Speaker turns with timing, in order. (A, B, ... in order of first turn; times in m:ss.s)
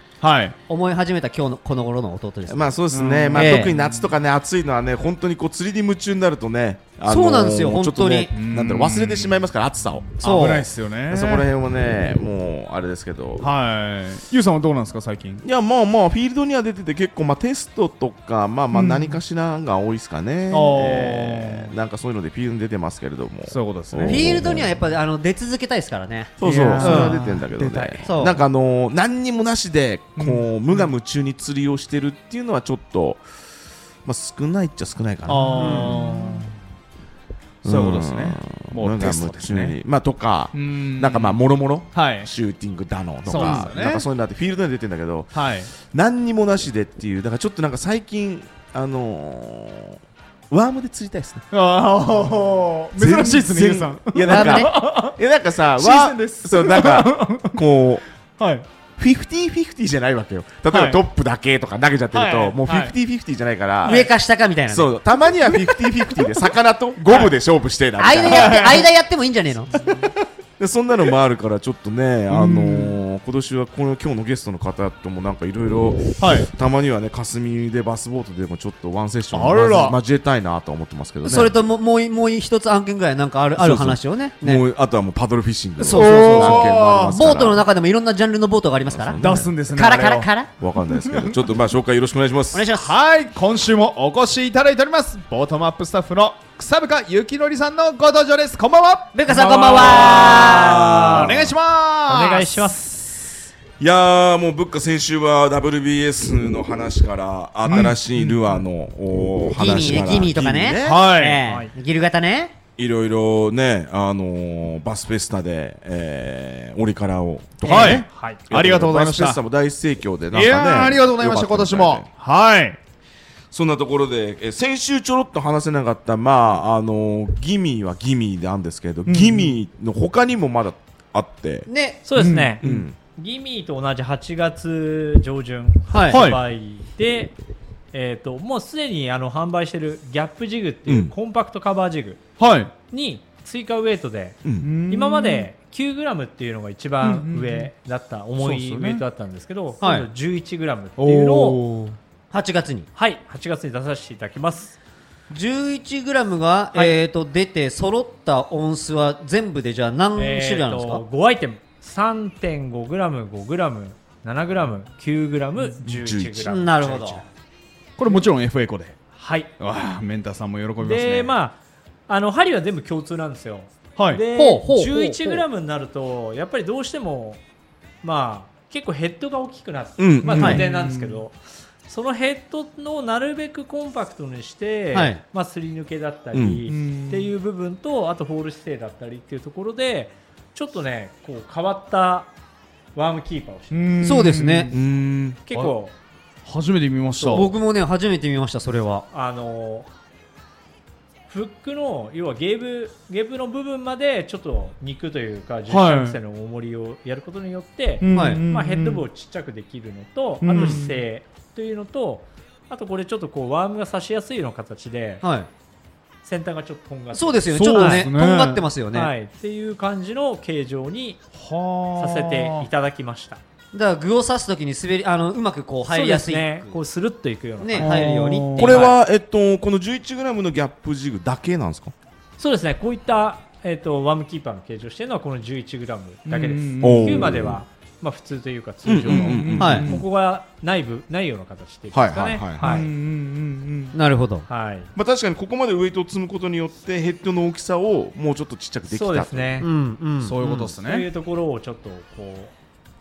0:00.2-0:00.6 A
0:00.7-0:02.7 B
0:02.5-0:10.1 C
0:02.9-0:04.2 A
0:03.3-0:03.7 B
0:07.0-0:08.3 B
0:08.3-0:09.5 A
0:10.1-0:11.5 A
0:10.2-0:10.7 B
0:11.1-0:13.4 C
0:13.4-0:15.4 A
0:15.4-0:24.8 C
0:18.7-0:19.2 A
0:20.5-0:21.7 A
0:23.5-0:24.6 A
0:24.0-0:27.2 B
0:26.4-0:33.2 C
0:26.4-0:28.2 A
0:28.0-0:28.4 B
0:30.2-0:30.9 A
0:34.0-0:36.1 C
0:35.3-0:36.5 A
0:35.6-0:36.0 B
0:37.6-0:39.8 A
0:37.6-0:50.0 C
0:40.5-0:41.4 A
0:41.9-0:42.3 A
0:43.2-0:44.0 A
0:43.3-0:43.7 B
0:45.3-0:45.7 A
0:50.5-0:51.4 C
0:51.5-0:55.2 A
0:53.0-0:58.0 C
0:54.2-0:54.7 B
0:55.8-0:57.6 A
0:58.4-0:58.6 A
0:59.0-1:04.1 C
1:00.7-1:01.0 A
1:02.1-1:02.9 A
1:03.8-1:04.9 B
1:04.7-1:08.7 C
1:05.2-1:06.4 A
1:07.1-1:07.3 A
1:08.0-1:09.7 B
1:08.2-1:08.8 A
1:09.7-1:10.2 A
1:10.6-1:21.5 C
1:12.3-1:13.0 A
1:16.2-1:16.5 A
1:19.3-1:20.0 A
1:21.2-1:24.6 B
1:23.6-1:27.6 C
1:25.8-1:27.2 A
1:25.8-1:29.2 B
1:28.9-1:29.5 C
1:29.2-1:30.3 A
1:29.7-1:30.5 B
1:30.6-1:32.7 C
1:30.8-1:31.4 A
1:32.5-1:32.9 B
1:32.7-1:42.7 A
1:39.1-1:41.3 B
1:39.7-1:41.5 C
1:39.9-1:41.1 D
1:42.1-1:43.3 D
1:43.8-1:51.0 C
1:47.6-1:48.6 A
1:49.5-1:52.6 B
1:50.8-1:51.4 A
1:51.4-1:51.7 D
1:52.8-2:02.1 C
1:57.6-1:59.4 A
1:57.7-1:58.0 B
1:57.8-1:58.4 D
2:00.3-2:02.8 A
2:03.5-2:11.7 C
2:09.0-2:09.6 A
2:11.7-2:12.0 B
2:12.0-2:17.3 D
2:12.2-2:12.8 A
2:12.6-2:12.9 C
2:15.9-2:16.2 B
2:16.1-2:16.4 A
2:17.9-2:22.2 D
2:20.9-2:21.1 C
2:22.4-2:22.7 A
2:22.9-2:31.6 D
2:24.4-2:24.7 C
2:24.6-2:25.5 A
2:27.0-2:27.7 A
2:28.4-2:29.0 A
2:29.8-2:30.1 B
2:31.0-2:32.0 A
2:32.3-2:32.9 B
2:33.0-2:34.8 D
2:35.3-2:41.0 B
2:40.2-2:47.2 D
2:45.9-2:46.5 C
2:46.4-2:47.2 B
2:48.0-2:49.0 A
2:49.2-2:49.5 D
2:49.6-2:51.3 A
2:50.8-2:57.4 D
2:54.0-2:54.2 A
2:54.3-2:55.4 B
2:58.0-3:12.3 D
3:00.0-3:00.6 C
3:00.3-3:01.2 A
3:04.9-3:05.2 B
3:06.3-3:06.6 C
3:06.7-3:07.3 A
3:12.9-3:14.0 D
3:13.7-3:14.8 A
3:14.0-3:14.7 B
3:14.7-3:15.4 C
3:15.4-3:15.9 D
3:16.4-3:17.5 A
3:17.2-3:19.0 B
3:19.1-3:19.9 D
3:21.3-3:35.2 D
3:25.7-3:26.2 A
3:28.0-3:29.0 A
3:28.1-3:28.4 B
3:30.4-3:31.0 A
3:30.5-3:30.8 B
3:35.2-3:35.5 B
3:36.2-3:38.1 D
3:37.1-3:39.1 B
3:37.5-3:38.7 A
3:38.9-3:41.2 D
3:41.3-3:42.7 A
3:42.0-3:43.4 D
3:43.7-3:46.8 B
3:45.9-3:48.0 D
3:47.6-3:48.9 B
3:47.8-3:48.8 A
3:48.6-3:51.9 C
3:48.7-3:49.0 D
3:52.4-4:02.9 D
3:56.3-3:57.4 A
3:56.8-3:57.6 C
3:58.8-4:00.0 C
3:59.0-4:00.0 A
3:59.6-3:59.9 B
4:01.9-4:02.8 C
4:02.6-4:04.0 A
4:03.9-4:04.5 B
4:04.5-4:04.9 D
4:04.9-4:09.6 C
4:08.9-4:09.7 D
4:09.6-4:10.4 B
4:10.2-4:11.1 A
4:10.4-4:12.5 D